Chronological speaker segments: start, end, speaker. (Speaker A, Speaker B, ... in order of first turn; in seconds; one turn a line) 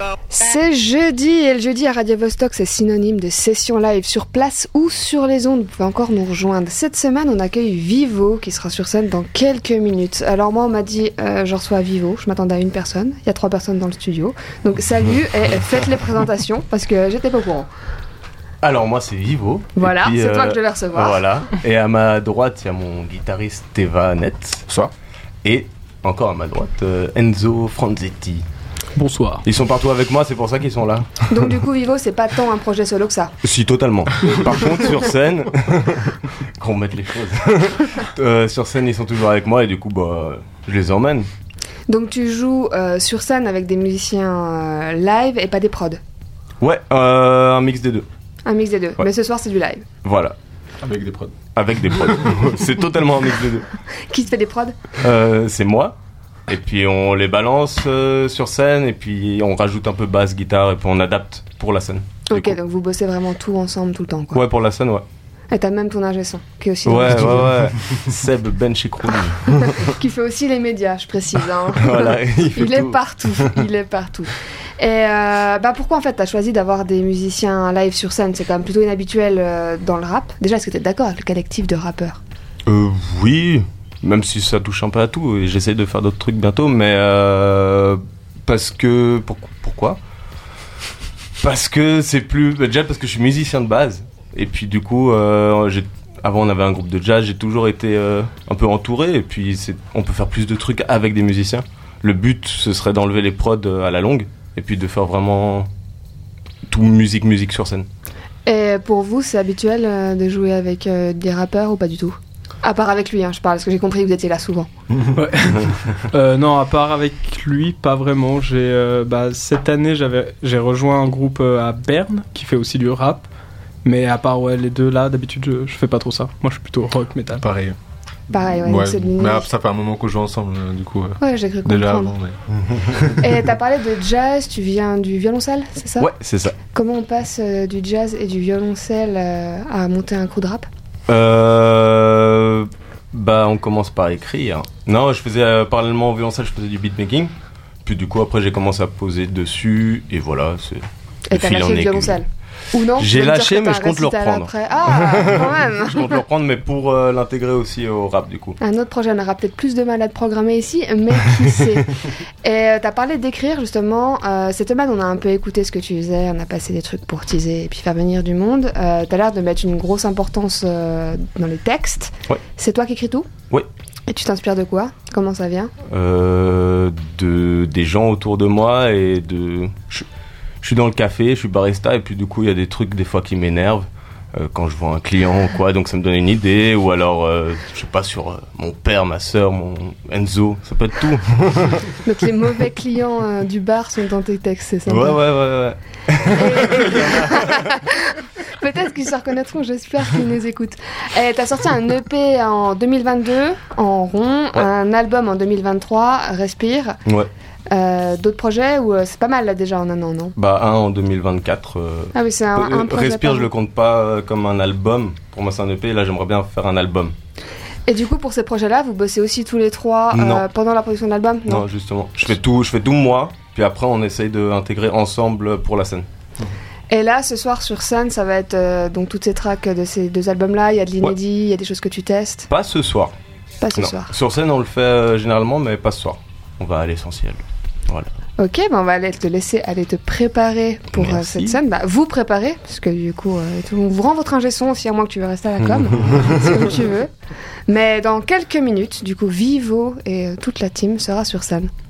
Speaker A: 0.3-17.7
Speaker B: 18.6-24.7
Speaker A: 19.8-21.2
Speaker B: 25.4-28.5
Speaker C: 29.0-29.4
Speaker B: 29.4-31.5
Speaker A: 31.3-33.3
Speaker B: 33.4-41.3
Speaker A: 41.9-46.0
Speaker B: 46.6-48.1
Speaker A: 48.5-49.9
Speaker B: 50.0-50.4
Speaker D: 50.8-51.4
Speaker B: 51.5-53.7
Speaker A: 54.1-54.8
Speaker B: 55.0-56.0
Speaker B: 56.5-62.6
Speaker A: 62.3-64.4
Speaker B: 64.3-65.0
Speaker A: 65.5-67.5
Speaker B: 66.8-69.9
Speaker A: 69.5-82.2
Speaker B: 71.8-73.5
Speaker B: 82.7-90.0
Speaker B: 91.4-105.7
Speaker B: 106.7-107.9
Speaker A: 108.5-114.7
Speaker C: 115.1-123.3
Speaker C: 123.8-127.4
Speaker D: 127.4-127.8
Speaker A: 128.3-129.5
Speaker D: 128.4-133.3
Speaker A: 131.2-132.1
Speaker A: 133.2-136.1
Speaker B: 136.0-136.6
Speaker A: 136.7-140.7
Speaker B: 141.1-147.3
Speaker B: 147.8-152.2
Speaker A: 151.3-156.2
Speaker B: 152.9-158.6
Speaker A: 158.6-173.3
Speaker A: 174.1-175.7
Speaker B: 175.9-180.1
Speaker B: 180.6-192.0
Speaker A: 191.9-195.2
Speaker B: 194.9-197.7
Speaker A: 196.3-207.0
Speaker A: 207.7-210.3
Speaker B: 210.4-217.2
Speaker A: 212.1-213.5
Speaker A: 217.9-221.7
Speaker B: 220.1-220.4
Speaker B: 221.5-226.1
Speaker A: 226.9-232.5
Speaker B: 232.5-233.1
Speaker A: 233.6-234.1
Speaker B: 233.8-238.1
Speaker A: 238.4-247.1
Speaker B: 240.9-241.6
Speaker A: 247.7-251.7